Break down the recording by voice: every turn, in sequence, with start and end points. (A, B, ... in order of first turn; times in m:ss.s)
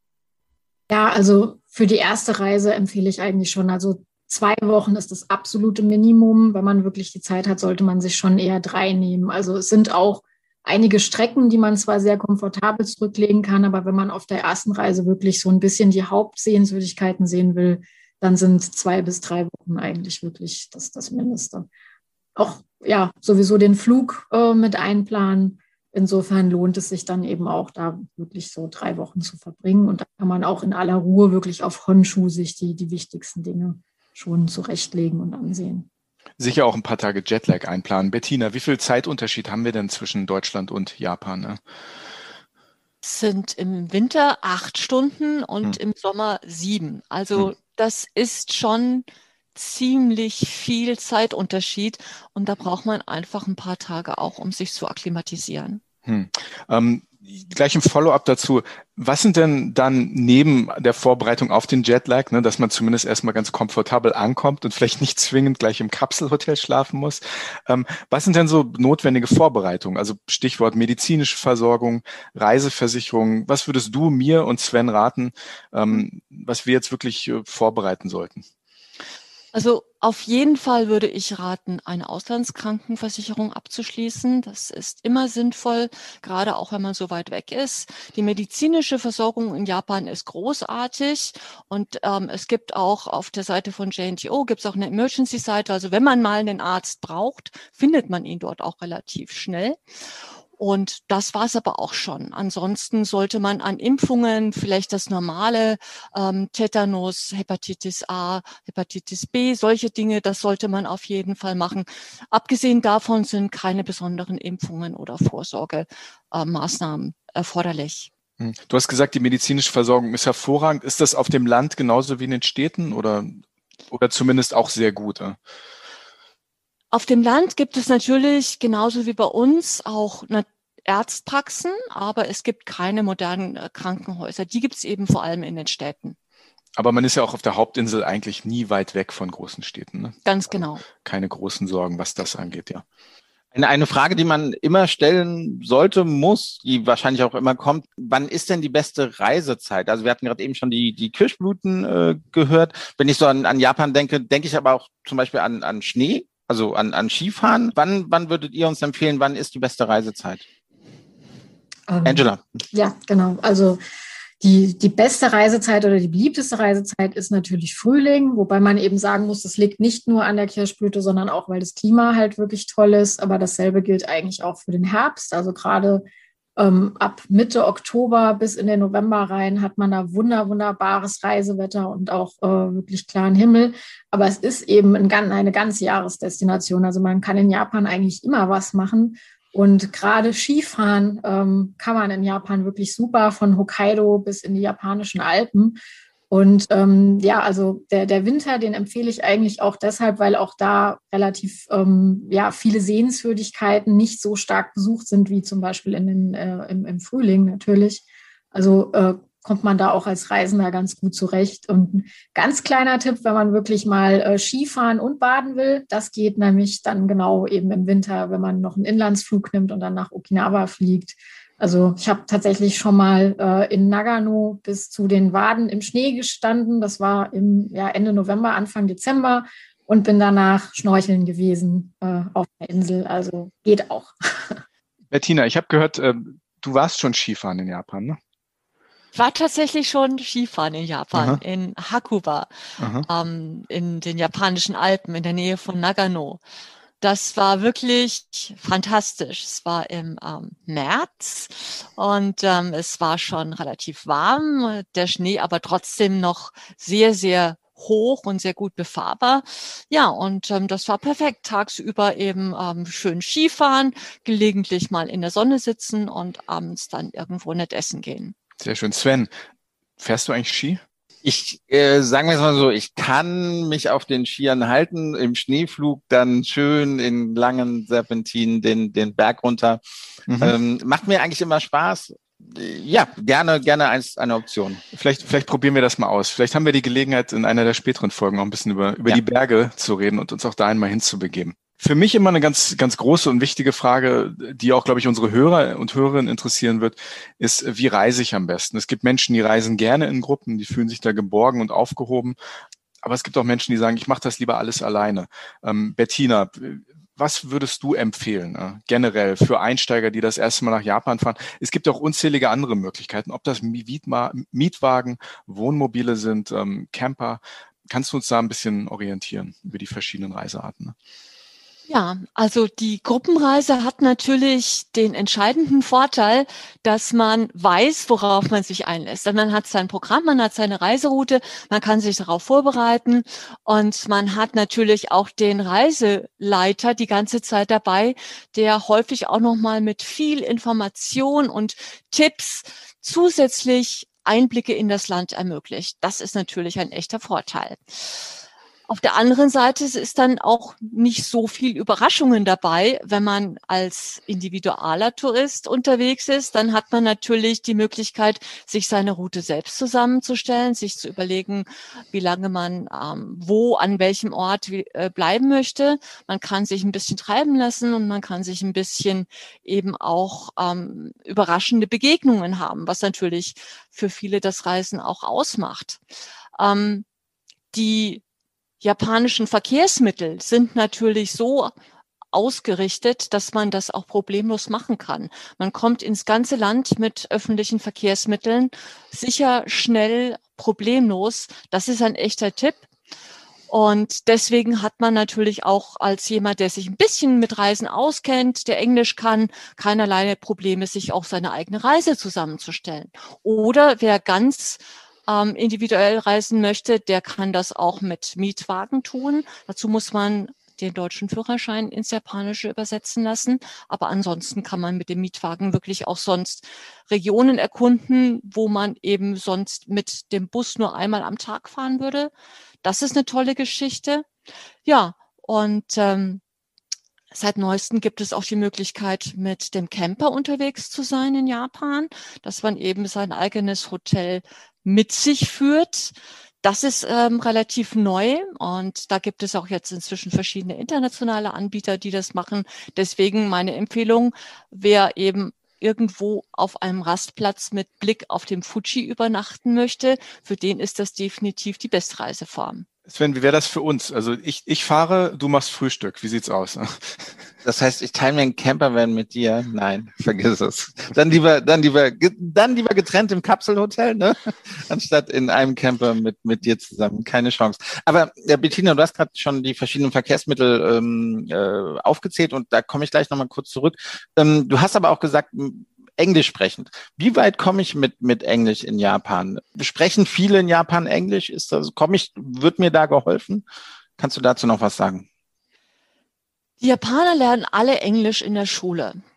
0:00.9-0:21.7 A
0:22.4-0:35.9 A
0:36.4-0:41.6 B
0:43.0-0:55.8 C
0:56.0-1:18.4 B
1:19.5-1:39.8 C
1:40.6-1:58.1 C
1:58.4-2:05.4 B
2:06.9-2:16.2 C
2:16.8-2:20.2 B
2:20.2-2:20.8 C
2:21.0-2:22.8 B
2:23.5-2:40.4 D
2:41.9-2:43.8 A
2:42.0-2:42.4 D
2:44.4-2:56.0 A
2:56.6-3:15.8 A
3:16.3-3:54.6 A
3:55.1-3:58.2 B
3:59.1-4:02.5 C
4:01.1-4:01.4 B
4:02.8-4:03.1 B
4:03.1-4:06.4 C
4:07.0-4:28.3 C
4:28.6-4:29.3 B
4:30.0-4:30.8 B
4:31.2-4:39.8 D
4:40.3-4:40.5 B
4:40.4-4:44.8 D
4:44.9-5:02.4 B
5:03.0-5:20.9 B
5:21.9-5:48.2 C
5:48.9-6:16.0 C
6:16.6-6:17.0 C
6:17.7-6:18.2 C
6:18.8-6:21.7 C
6:22.3-6:32.8 C
6:33.7-7:02.3 C
7:02.8-7:04.2 C
7:04.8-7:06.4 C
7:07.3-7:32.8 C
7:33.1-7:37.4 B
7:37.6-8:03.6 D
8:04.2-8:05.2 D
8:06.8-8:09.2 C